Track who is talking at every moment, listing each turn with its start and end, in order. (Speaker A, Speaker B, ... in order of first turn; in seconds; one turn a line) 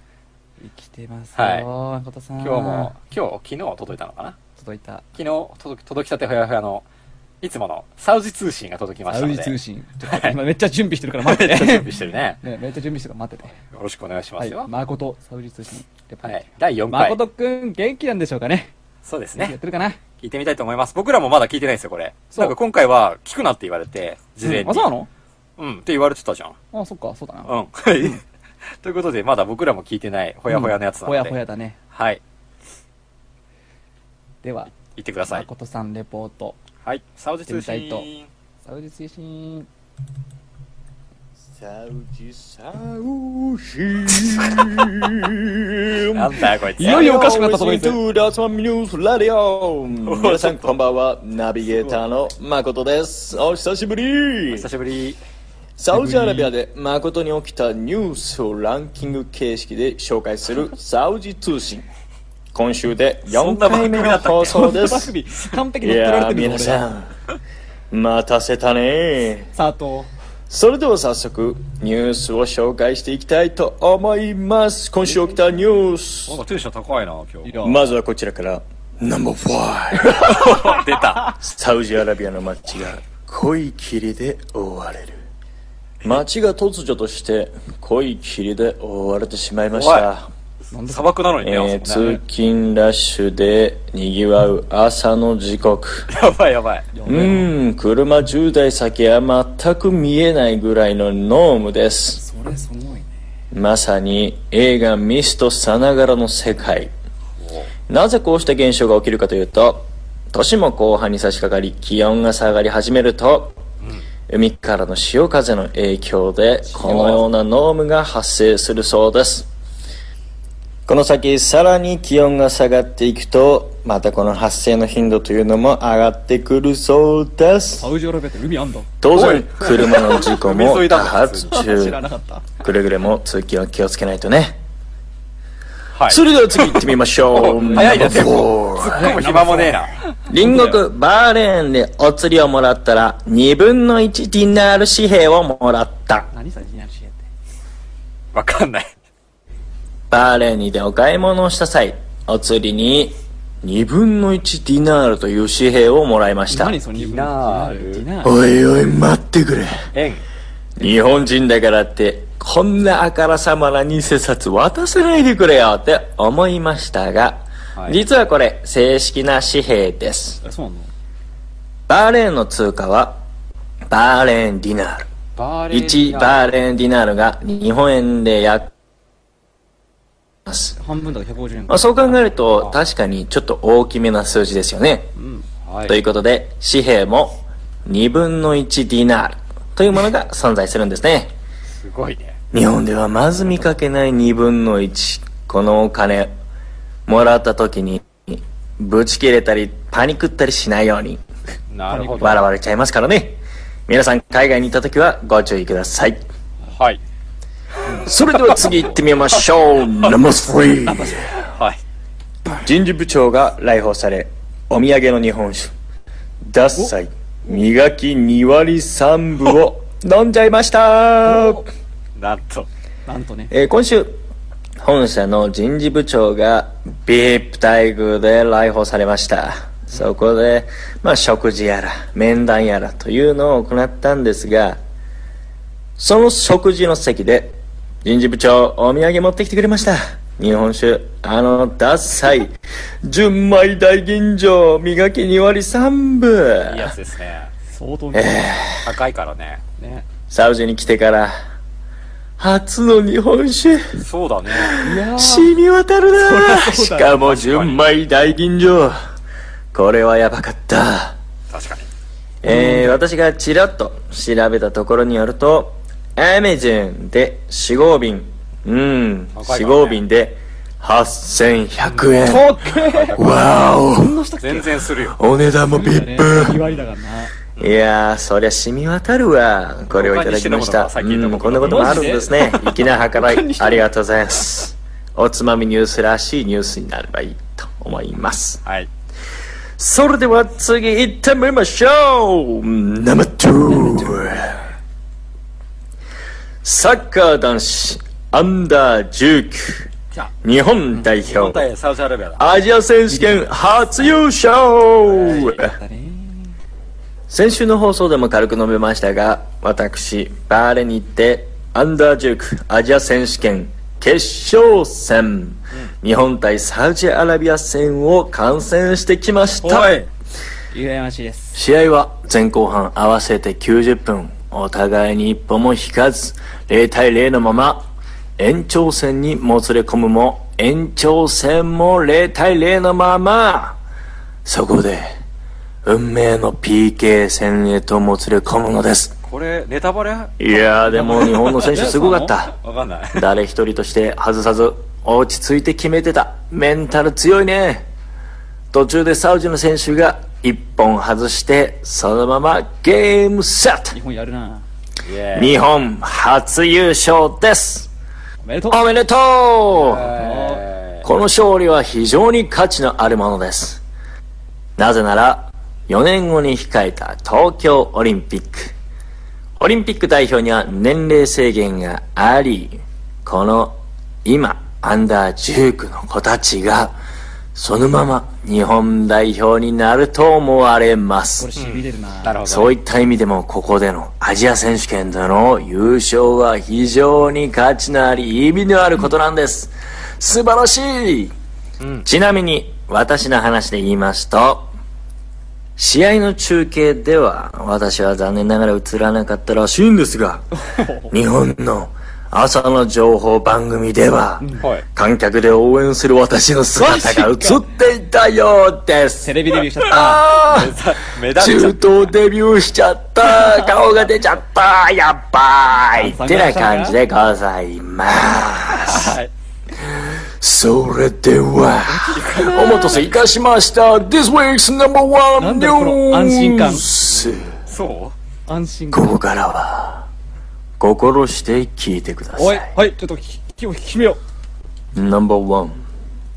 Speaker A: 0.6-2.9
Speaker B: 1.4-1.7
Speaker B: 2.4-4.4
Speaker A: 4.6-5.1
Speaker B: 5.2-6.8
Speaker B: 7.4-9.6
Speaker A: 9.1-11.9
Speaker B: 10.1-10.3
Speaker B: 11.2-12.4
Speaker A: 12.4-13.6
Speaker B: 13.6-14.7
Speaker A: 14.4-18.7
Speaker B: 16.2-17.2
Speaker B: 19.0-19.6
Speaker A: 19.4-20.0
Speaker B: 20.2-24.9
Speaker A: 24.4-25.1
Speaker B: 25.6-26.6
Speaker A: 26.7-27.5
Speaker B: 27.4-28.2
Speaker B: 28.8-31.4
Speaker A: 30.5-31.8
Speaker B: 31.9-32.2
Speaker A: 34.4-34.7
Speaker B: 34.8-35.5
Speaker A: 35.3-36.6
Speaker B: 36.8-38.3
Speaker A: 37.5-38.1
Speaker A: 38.6-39.7
Speaker C: 41.6-54.7
Speaker B: 46.1-47.2
Speaker A: 46.8-48.0
Speaker B: 50.0-50.7
Speaker B: 54.5-55.2
Speaker C: 55.8-61.9
Speaker A: 55.9-56.5
Speaker C: 62.5-65.1
Speaker B: 63.3-64.8
Speaker A: 64.5-66.8
Speaker C: 65.8-67.1
Speaker C: 67.9-69.5
Speaker A: 69.5-70.1
Speaker C: 70.5-76.4
Speaker A: 75.0-75.7
Speaker B: 76.3-77.6
Speaker A: 77.4-77.8
Speaker C: 77.6-80.8
Speaker B: 80.2-81.3
Speaker C: 81.3-85.2
Speaker C: 86.0-90.3
Speaker B: 89.7-90.1
Speaker A: 90.7-91.1
Speaker B: 90.9-92.2
Speaker C: 91.4-96.1
Speaker B: 96.1-96.9
Speaker A: 96.9-97.5
Speaker C: 97.1-102.2
Speaker A: 102.1-103.3
Speaker C: 103.5-106.9
Speaker B: 107.4-107.7
Speaker C: 107.9-113.5
Speaker C: 114.3-119.5
Speaker B: 116.7-117.3
Speaker C: 120.9-127.9
Speaker A: 127.8-128.9
Speaker C: 129.0-132.0
Speaker B: 129.1-131.5
Speaker A: 131.5-132.5
Speaker C: 132.6-134.6
Speaker B: 135.9-136.8
Speaker C: 136.1-139.2
Speaker B: 137.3-140.8
Speaker A: 137.3-139.8
Speaker C: 140.3-146.3
Speaker A: 140.4-140.8
Speaker A: 146.3-147.3
Speaker B: 148.3-148.9
Speaker C: 150.1-156.8
Speaker A: 156.5-158.6
Speaker B: 157.0-158.1
Speaker C: 158.2-159.8
Speaker B: 159.9-160.2
Speaker C: 160.8-170.4
Speaker B: 167.8-168.0
Speaker A: 170.4-170.9
Speaker C: 171.9-173.2
Speaker C: 173.9-175.1
Speaker B: 175.4-176.5
Speaker C: 175.7-178.7
Speaker C: 180.5-180.8
Speaker A: 180.8-182.2
Speaker C: 181.7-185.1
Speaker A: 185.2-185.5
Speaker B: 185.7-186.0
Speaker C: 185.9-191.3
Speaker B: 191.7-192.4
Speaker C: 192.5-196.3
Speaker C: 197.1-201.2
Speaker B: 201.7-202.4
Speaker A: 201.9-202.4
Speaker C: 202.2-206.2
Speaker B: 206.7-207.0
Speaker C: 207.9-211.4
Speaker A: 208.6-208.9
Speaker A: 210.8-211.3
Speaker B: 211.5-211.8
Speaker C: 212.6-215.7
Speaker C: 216.4-221.6
Speaker A: 221.2-221.7
Speaker B: 222.2-222.7
Speaker A: 223.1-223.5
Speaker C: 223.5-224.2
Speaker C: 224.8-234.8
Speaker C: 236.0-246.9
Speaker B: 246.6-247.5
Speaker A: 247.7-248.6
Speaker C: 248.1-248.9
Speaker B: 248.8-249.6
Speaker A: 249.8-250.1
Speaker C: 250.3-251.4
Speaker C: 252.4-253.8
Speaker B: 254.0-254.8
Speaker C: 254.6-259.0
Speaker A: 254.8-255.6
Speaker A: 256.2-257.3
Speaker B: 257.1-257.8
Speaker C: 259.7-261.2
Speaker B: 261.5-261.9
Speaker C: 262.4-272.5
Speaker A: 262.4-263.0
Speaker B: 269.3-270.0
Speaker B: 271.8-273.7
Speaker A: 272.2-274.9
Speaker C: 273.1-274.2
Speaker B: 274.4-275.2
Speaker C: 275.1-276.7
Speaker A: 275.6-277.4
Speaker B: 277.6-277.8
Speaker C: 277.6-288.6
Speaker B: 279.9-282.4
Speaker A: 281.6-283.9
Speaker C: 289.8-294.6
Speaker A: 293.7-294.6
Speaker C: 296.6-299.9
Speaker C: 300.4-301.7
Speaker B: 301.1-302.4
Speaker C: 302.4-305.8
Speaker A: 303.1-304.1
Speaker A: 305.1-306.6
Speaker B: 305.3-305.5
Speaker C: 307.3-320.0
Speaker B: 319.6-320.1
Speaker A: 320.7-321.6
Speaker C: 321.6-327.9
Speaker C: 328.4-333.8
Speaker C: 334.4-335.1
Speaker C: 335.9-339.1
Speaker B: 339.2-343.3
Speaker C: 340.4-342.5
Speaker A: 340.9-342.3
Speaker C: 343.1-347.9
Speaker C: 348.7-354.0
Speaker A: 353.9-354.6
Speaker B: 355.0-355.6
Speaker C: 355.3-357.9
Speaker A: 358.4-358.9
Speaker C: 358.7-360.1
Speaker B: 359.7-361.1
Speaker A: 360.1-360.6
Speaker C: 361.0-363.8
Speaker C: 364.8-368.7
Speaker C: 369.6-377.0
Speaker C: 377.6-381.5
Speaker A: 381.4-382.4
Speaker B: 381.6-382.7
Speaker C: 382.4-391.3
Speaker B: 391.8-392.1
Speaker C: 392.1-394.7
Speaker C: 395.8-409.4
Speaker A: 400.6-401.1
Speaker A: 404.4-404.7
Speaker B: 404.6-404.9
Speaker A: 406.8-407.7
Speaker A: 409.2-410.6
Speaker B: 409.8-412.1
Speaker C: 410.1-410.7
Speaker C: 411.3-419.2
Speaker B: 413.5-414.5
Speaker A: 415.9-417.0
Speaker B: 418.7-419.3
Speaker C: 420.4-427.6
Speaker A: 421.9-423.1
Speaker B: 421.9-423.3
Speaker A: 425.4-426.9
Speaker B: 427.7-428.1
Speaker A: 428.5-429.2
Speaker C: 428.9-430.1
Speaker C: 430.8-432.7
Speaker A: 432.4-434.2
Speaker C: 434.9-435.8